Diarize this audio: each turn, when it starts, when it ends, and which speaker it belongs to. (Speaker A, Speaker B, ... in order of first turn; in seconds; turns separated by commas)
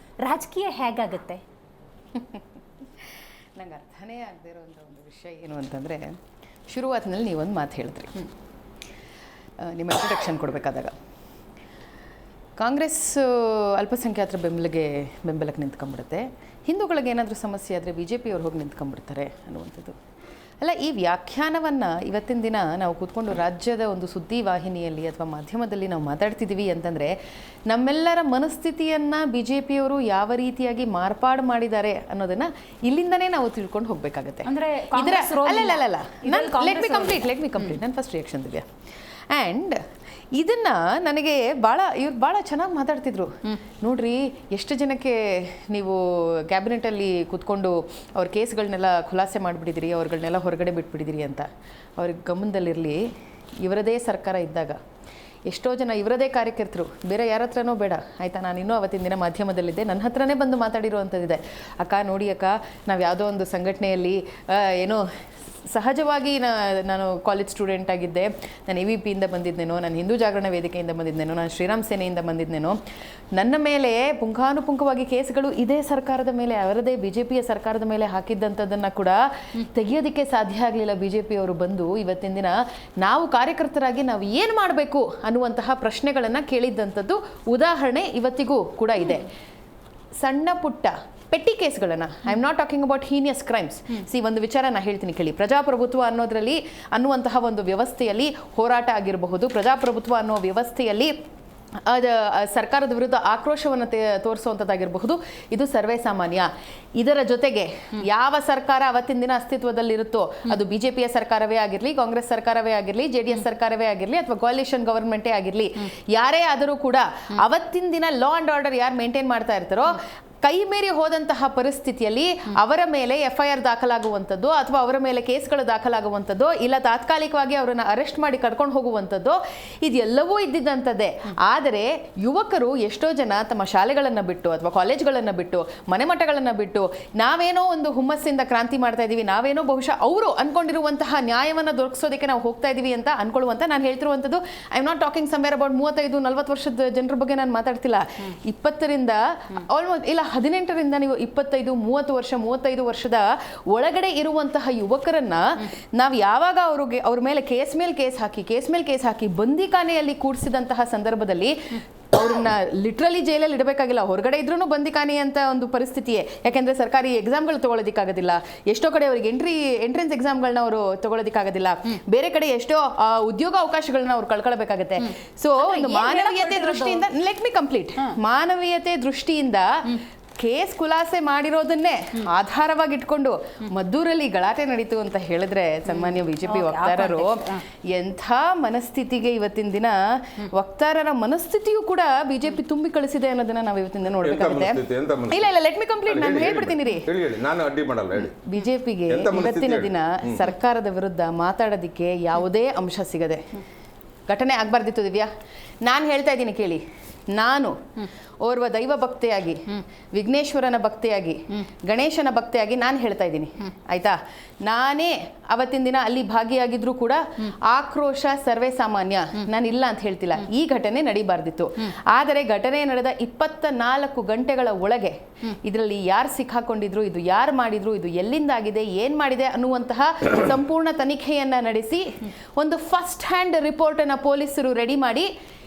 Speaker A: 0.2-1.4, Speaker B: 2.2-2.4, Speaker B: 3.6-6.2, Speaker B: 6.7-8.3, Speaker B: 9.6-11.0, Speaker B: 12.6-20.0, Speaker B: 20.6-27.1, Speaker B: 27.7-38.7, Speaker A: 34.5-37.2, Speaker B: 39.3-39.8, Speaker B: 40.4-51.5, Speaker B: 52.0-53.0, Speaker B: 53.6-54.8, Speaker B: 55.5-65.0, Speaker B: 65.7-72.8, Speaker B: 73.4-89.3, Speaker B: 90.2-101.1, Speaker B: 101.9-197.1, Speaker A: 175.6-177.0, Speaker A: 186.5-187.6, Speaker C: 194.2-195.5, Speaker C: 196.1-198.3, Speaker B: 198.3-203.4, Speaker C: 199.1-200.4, Speaker B: 204.3-205.3, Speaker B: 205.8-206.8, Speaker B: 207.4-235.3